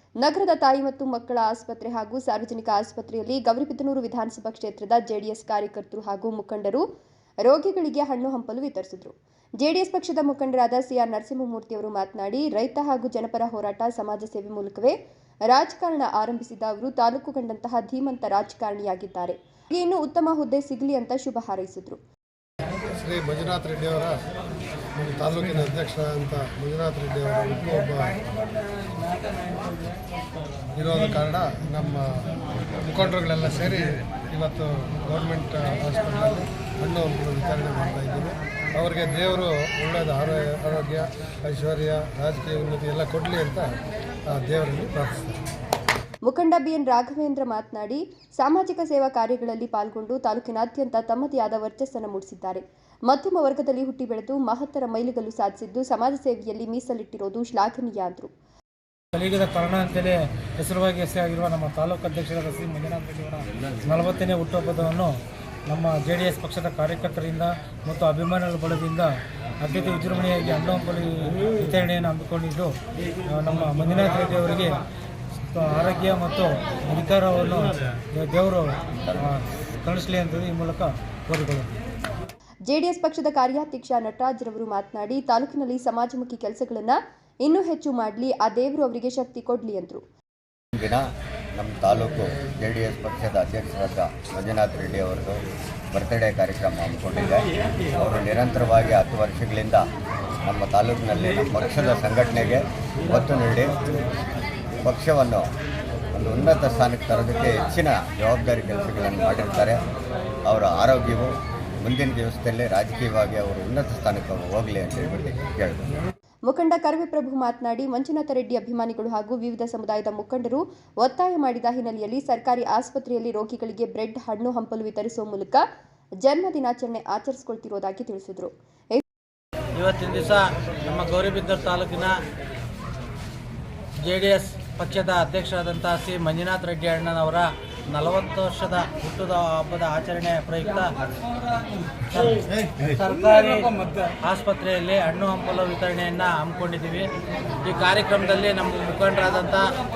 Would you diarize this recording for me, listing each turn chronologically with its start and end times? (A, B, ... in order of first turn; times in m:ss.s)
0:00.2-0:06.8 A
0:07.4-0:15.0 A
0:15.5-0:22.0 A
0:22.9-0:24.2 B
0:25.0-0:28.2 B
0:30.8-0:32.1 B
0:32.7-0:43.7 B
0:44.3-0:45.4 B
0:46.2-0:58.3 A
0:59.1-1:12.7 C
1:13.3-1:14.8 C
1:15.5-1:21.7 C
1:22.7-1:30.0 A
1:30.7-1:35.4 D
1:35.9-1:39.8 D
1:40.4-1:43.8 D
1:44.8-1:45.5 D
1:46.1-1:49.8 D
1:50.4-1:55.9 D
1:56.5-2:05.6 A
2:06.2-2:09.0 A
2:09.8-2:12.1 E
2:14.0-2:20.9 E
2:22.1-2:27.1 E
2:27.6-2:29.7 E